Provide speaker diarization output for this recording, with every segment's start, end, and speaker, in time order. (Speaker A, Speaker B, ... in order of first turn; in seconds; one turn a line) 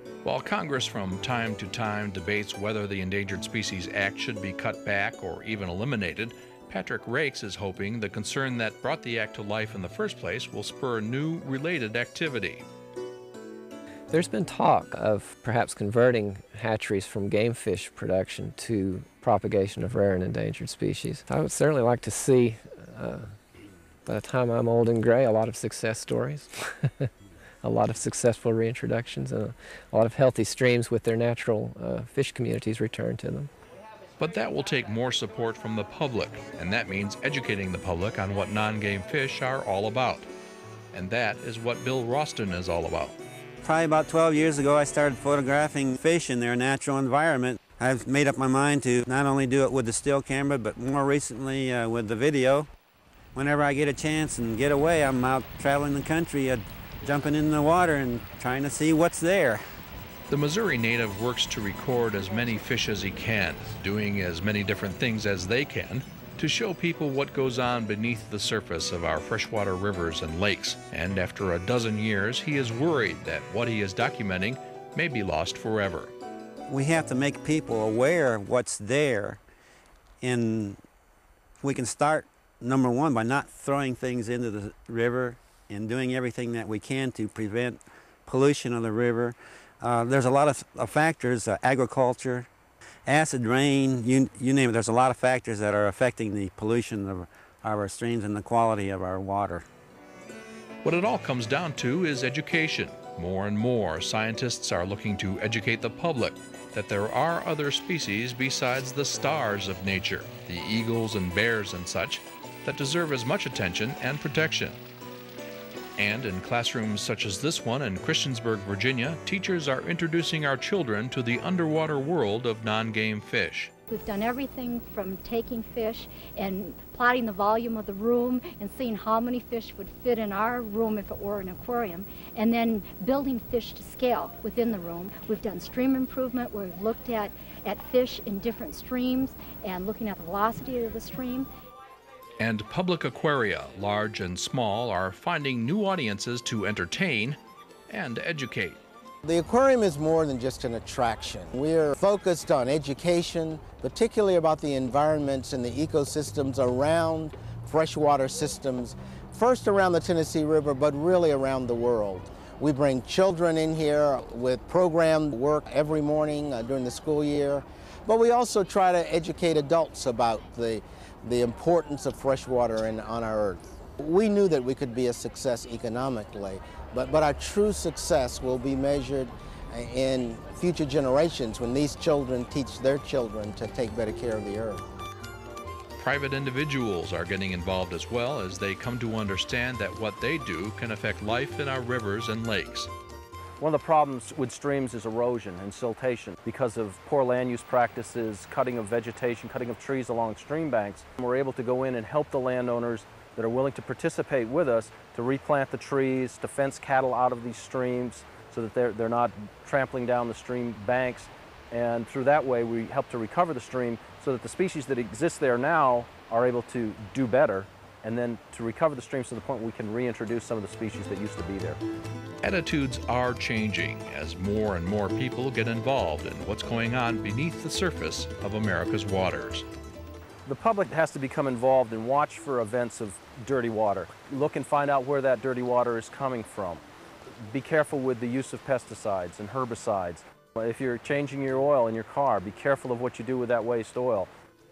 Speaker A: 0.2-12.6
Speaker B: 14.1-23.4
Speaker B: 24.1-27.1
Speaker B: 27.6-33.5
Speaker A: 34.2-40.3
Speaker A: 40.9-43.2
Speaker C: 43.6-52.7
Speaker C: 53.3-59.6
Speaker A: 60.3-76.1
Speaker C: 76.7-79.4
Speaker C: 80.2-80.8
Speaker C: 81.6-92.5
Speaker C: 93.0-99.6
Speaker A: 100.8-114.8
Speaker A: 116.0-123.7
Speaker D: 123.9-141.5
Speaker A: 142.4-148.8
Speaker E: 149.2-184.8
Speaker A: 186.0-192.9
Speaker F: 193.6-221.8
Speaker A: 222.4-229.7
Speaker F: 230.4-236.8
Speaker F: 237.5-244.3